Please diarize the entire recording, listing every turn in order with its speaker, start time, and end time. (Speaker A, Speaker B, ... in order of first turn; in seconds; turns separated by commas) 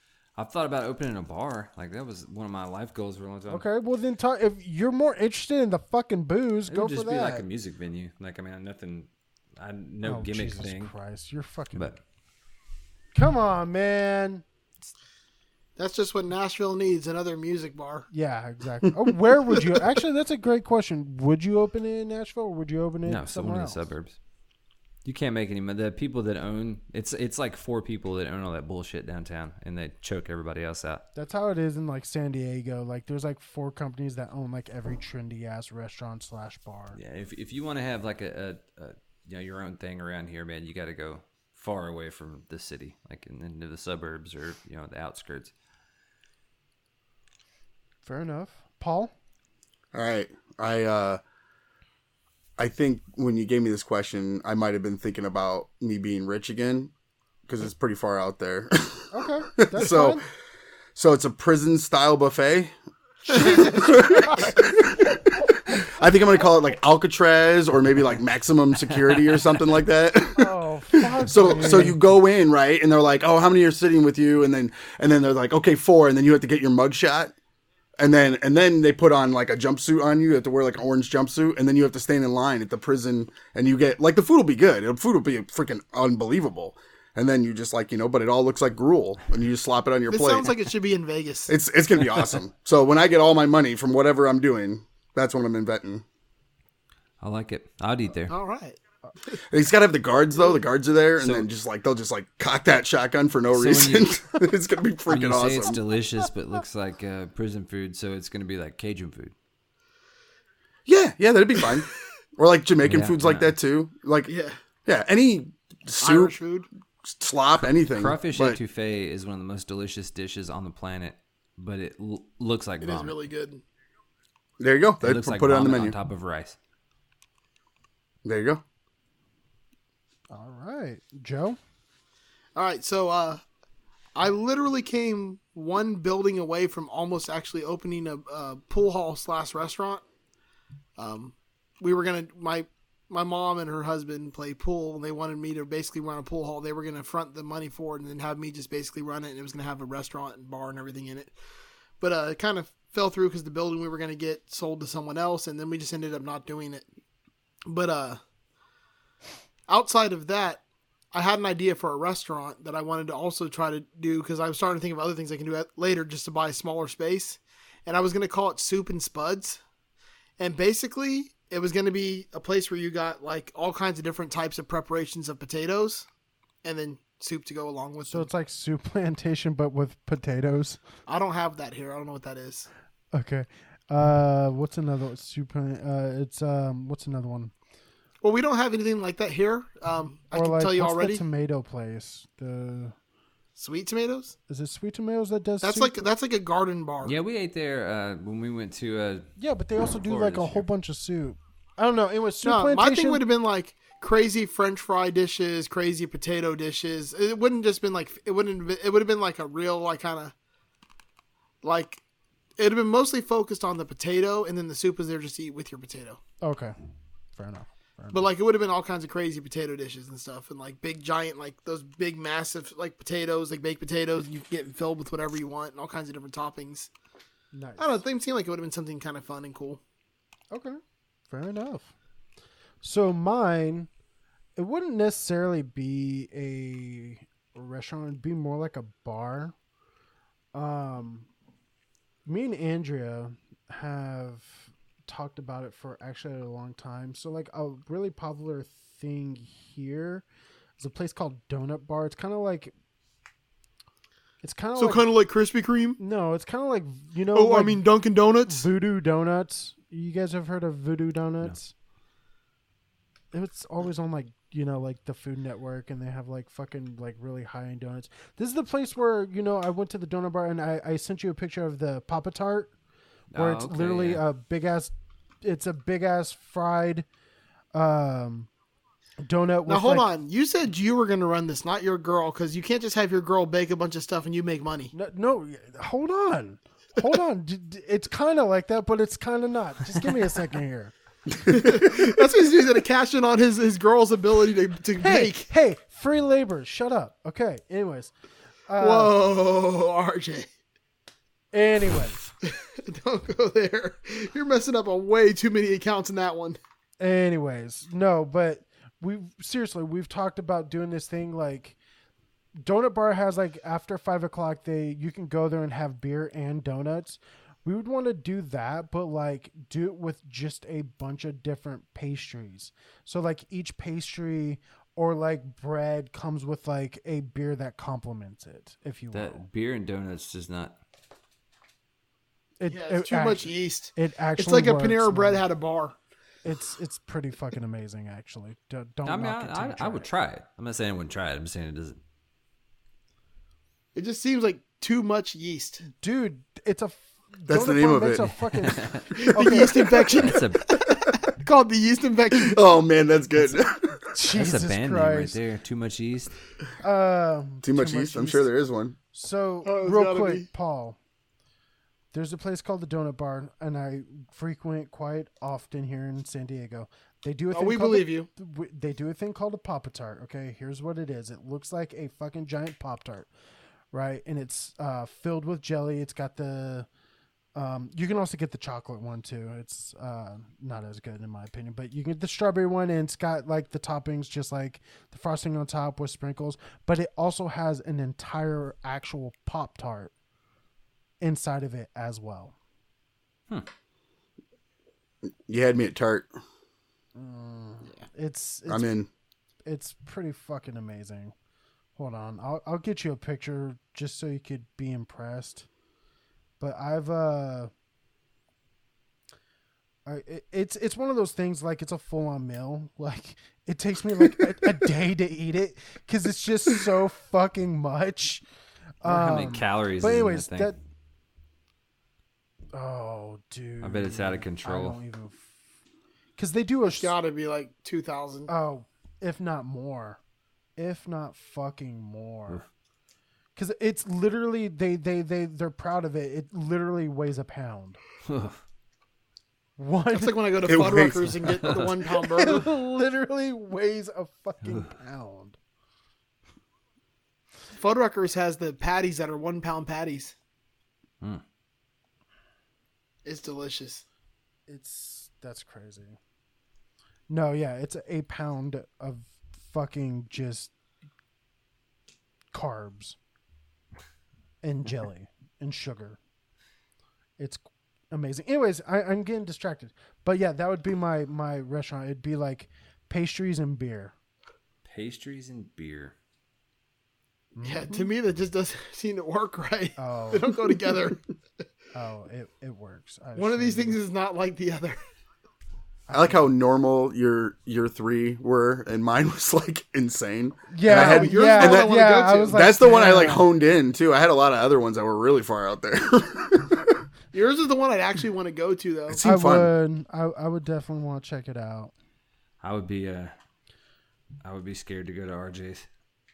Speaker A: 0.3-3.6, Speaker B: 3.5-7.4, Speaker A: 6.7-10.9, Speaker B: 10.0-11.9, Speaker A: 11.7-12.0, Speaker B: 13.1-14.4, Speaker C: 15.8-18.1, Speaker B: 18.1-23.9, Speaker A: 23.1-24.2, Speaker A: 25.0-31.1, Speaker B: 31.1-37.0, Speaker A: 36.9-45.5, Speaker B: 48.0-49.1, Speaker D: 49.9-51.2, Speaker D: 52.6-56.9, Speaker D: 57.5-60.2, Speaker B: 59.1-60.2, Speaker D: 60.9-62.7, Speaker B: 63.3-64.4, Speaker D: 63.3-77.3, Speaker B: 70.4-72.0, Speaker D: 78.0-90.5, Speaker C: 90.1-91.5, Speaker D: 91.5-96.0, Speaker A: 97.2-98.3, Speaker C: 98.3-99.4, Speaker D: 99.5-105.8, Speaker A: 101.2-101.5, Speaker A: 103.5-104.2, Speaker A: 105.1-109.3, Speaker D: 110.8-114.3, Speaker A: 112.8-113.5, Speaker C: 114.2-114.6, Speaker D: 114.8-116.4, Speaker C: 116.0-116.7, Speaker D: 117.0-118.6, Speaker A: 117.8-123.2, Speaker C: 122.8-123.6, Speaker D: 124.6-125.9, Speaker A: 125.0-126.6, Speaker D: 128.2-128.6, Speaker B: 130.3-131.6, Speaker C: 132.5-133.4, Speaker C: 134.1-140.0, Speaker C: 141.0-151.3, Speaker C: 152.0-156.8, Speaker C: 157.7-158.2, Speaker C: 159.7-160.6, Speaker C: 161.1-169.6, Speaker C: 170.4-176.1, Speaker C: 176.6-178.3, Speaker B: 178.1-180.8, Speaker C: 181.1-182.7, Speaker B: 183.1-187.5, Speaker C: 188.2-191.2, Speaker B: 190.3-192.9, Speaker C: 193.6-194.3, Speaker B: 194.5-196.1, Speaker C: 195.6-197.2, Speaker A: 197.0-199.3, Speaker B: 199.4-203.2, Speaker A: 199.9-200.6, Speaker C: 202.4-210.3, Speaker C: 211.6-212.0, Speaker C: 212.6-216.2, Speaker B: 216.4-216.7, Speaker B: 217.3-218.3, Speaker C: 218.1-226.9, Speaker B: 227.5-228.0, Speaker C: 227.8-229.8, Speaker B: 230.5-231.9, Speaker B: 232.8-233.9, Speaker B: 234.6-239.5, Speaker B: 240.5-241.3, Speaker B: 242.2-250.2, Speaker B: 250.8-252.7, Speaker B: 254.4-255.1, Speaker C: 254.8-256.0, Speaker B: 256.0-257.8, Speaker C: 257.3-258.7, Speaker B: 258.5-261.7, Speaker B: 263.3-272.7, Speaker A: 273.3-274.2, Speaker B: 273.3-277.1, Speaker B: 277.7-278.5, Speaker B: 279.2-280.1, Speaker C: 279.7-284.9, Speaker B: 284.9-290.9, Speaker C: 291.5-295.5, Speaker B: 295.0-298.1, Speaker B: 298.7-299.1, Speaker C: 298.8-300.5, Speaker B: 301.5-302.3, Speaker C: 302.4-306.6, Speaker B: 307.0-311.8, Speaker B: 312.6-329.4, Speaker A: 329.1-330.8, Speaker B: 332.6-335.4, Speaker C: 332.7-335.9, Speaker B: 336.4-340.1, Speaker A: 339.0-342.0, Speaker C: 343.9-345.8, Speaker B: 345.9-350.1, Speaker D: 347.5-348.3, Speaker A: 348.6-349.1, Speaker C: 349.1-352.6, Speaker A: 350.2-350.6, Speaker D: 352.3-354.0, Speaker B: 353.4-355.4, Speaker A: 354.3-356.3, Speaker B: 356.8-358.5, Speaker D: 357.6-358.9, Speaker B: 359.1-361.0, Speaker C: 359.6-360.5, Speaker B: 362.1-373.3, Speaker C: 367.5-368.3, Speaker B: 373.9-376.9, Speaker B: 377.5-390.1, Speaker B: 391.2-392.5, Speaker D: 395.5-396.3, Speaker B: 397.1-399.0, Speaker D: 398.7-399.1, Speaker B: 399.6-401.3, Speaker B: 401.9-405.7, Speaker B: 406.6-407.7, Speaker B: 410.1-418.4, Speaker B: 419.0-420.8, Speaker A: 419.0-420.7, Speaker B: 422.7-425.5, Speaker A: 423.8-425.0, Speaker B: 426.4-427.1, Speaker C: 426.9-428.5, Speaker B: 428.5-430.2, Speaker B: 430.8-432.6, Speaker B: 433.6-438.0, Speaker A: 438.3-438.6, Speaker B: 439.8-440.5, Speaker C: 440.1-442.6, Speaker D: 440.6-441.7, Speaker B: 442.3-445.6, Speaker A: 444.6-444.9, Speaker C: 447.7-450.3, Speaker C: 453.2-454.0, Speaker B: 454.7-456.2, Speaker B: 457.3-460.7, Speaker B: 462.5-463.2, Speaker B: 464.6-466.2, Speaker B: 467.4-474.1, Speaker A: 474.8-476.1, Speaker B: 477.5-478.0, Speaker C: 477.6-481.2, Speaker B: 480.0-480.5, Speaker B: 481.9-484.0, Speaker C: 483.4-485.0, Speaker B: 486.1-486.3, Speaker D: 486.1-496.9, Speaker B: 490.7-493.5, Speaker C: 490.9-492.6, Speaker C: 497.3-499.2, Speaker D: 499.1-499.7, Speaker B: 499.2-501.9, Speaker A: 502.6-503.3, Speaker A: 504.4-505.9